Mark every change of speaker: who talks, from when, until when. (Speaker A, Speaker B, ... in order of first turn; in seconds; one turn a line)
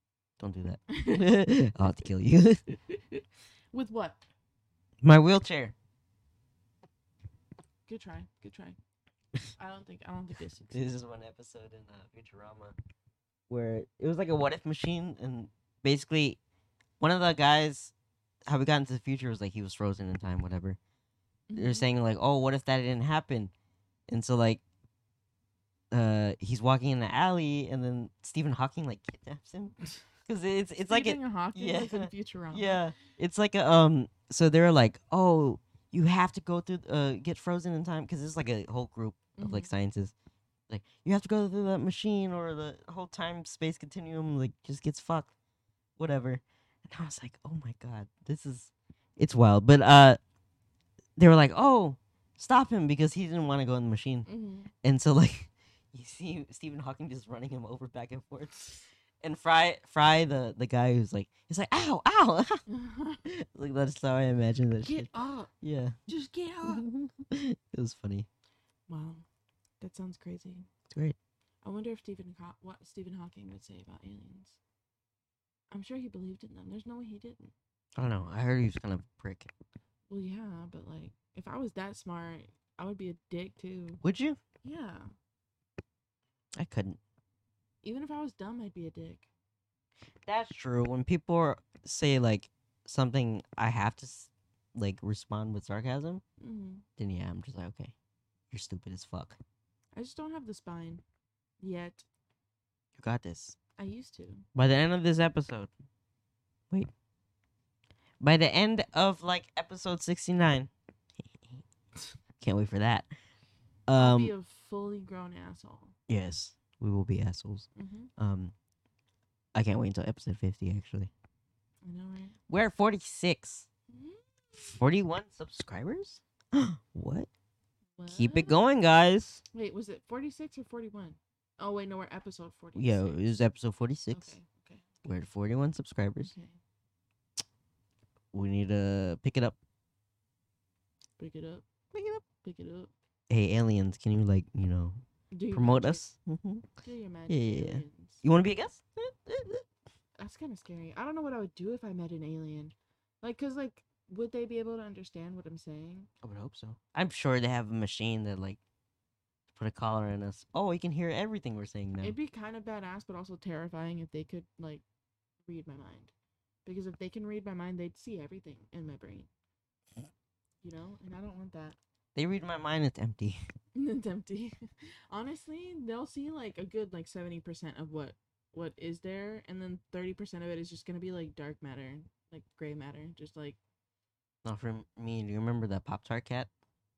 Speaker A: 0.4-2.6
Speaker B: 0.9-1.3
Speaker B: 2.7-4.2
Speaker A: 5.0-5.8
Speaker B: 7.9-8.8
Speaker B: 9.6-10.9
Speaker A: 10.7-12.8
Speaker A: 13.5-16.4
Speaker A: 17.0-17.9
Speaker A: 18.5-20.8
Speaker B: 21.5-21.9
Speaker A: 21.6-23.5
Speaker A: 24.1-24.6
Speaker A: 25.9-40.1
Speaker B: 30.9-32.8
Speaker B: 39.4-39.7
Speaker A: 40.7-45.3
Speaker A: 46.0-50.2
Speaker A: 51.2-54.3
Speaker B: 54.3-54.7
Speaker A: 54.8-62.6
Speaker B: 62.7-63.2
Speaker A: 63.2-65.1
Speaker B: 64.8-65.5
Speaker A: 65.6-66.0
Speaker B: 66.1-66.9
Speaker A: 66.6-68.3
Speaker B: 68.9-69.3
Speaker B: 69.8-70.7
Speaker A: 70.9-71.2
Speaker B: 71.6-74.6
Speaker B: 75.7-77.5
Speaker A: 78.0-79.5
Speaker B: 80.1-84.0
Speaker A: 84.0-84.4
Speaker B: 84.6-85.1
Speaker A: 86.6-87.0
Speaker B: 87.8-89.3
Speaker A: 90.2-96.2
Speaker B: 96.4-96.8
Speaker A: 97.0-97.9
Speaker A: 98.5-99.4
Speaker B: 100.0-101.0
Speaker B: 101.6-102.1
Speaker A: 103.0-103.6
Speaker B: 103.8-104.5
Speaker A: 104.5-105.7
Speaker A: 108.2-110.7
Speaker A: 112.4-113.1
Speaker A: 113.9-114.3
Speaker B: 114.0-116.0
Speaker A: 116.1-118.5
Speaker B: 117.8-118.1
Speaker A: 119.5-121.1
Speaker B: 121.8-122.4
Speaker A: 122.5-123.7
Speaker B: 123.9-124.8
Speaker A: 124.6-127.3
Speaker B: 128.0-128.6
Speaker A: 128.1-129.4
Speaker B: 129.5-133.2
Speaker A: 132.8-134.3
Speaker B: 134.1-135.1
Speaker A: 135.0-136.3
Speaker B: 136.2-136.6
Speaker A: 138.3-139.6
Speaker B: 141.2-141.7
Speaker A: 141.9-142.2
Speaker B: 142.2-142.9
Speaker A: 143.3-146.7
Speaker B: 145.3-146.0
Speaker B: 146.8-148.2
Speaker A: 147.3-149.7
Speaker B: 150.2-156.1
Speaker A: 156.2-158.6
Speaker A: 159.6-162.2
Speaker B: 162.0-164.8
Speaker B: 165.5-166.1
Speaker B: 166.7-169.3
Speaker B: 170.6-171.8
Speaker A: 172.2-173.4
Speaker B: 173.8-183.6
Speaker A: 184.4-186.5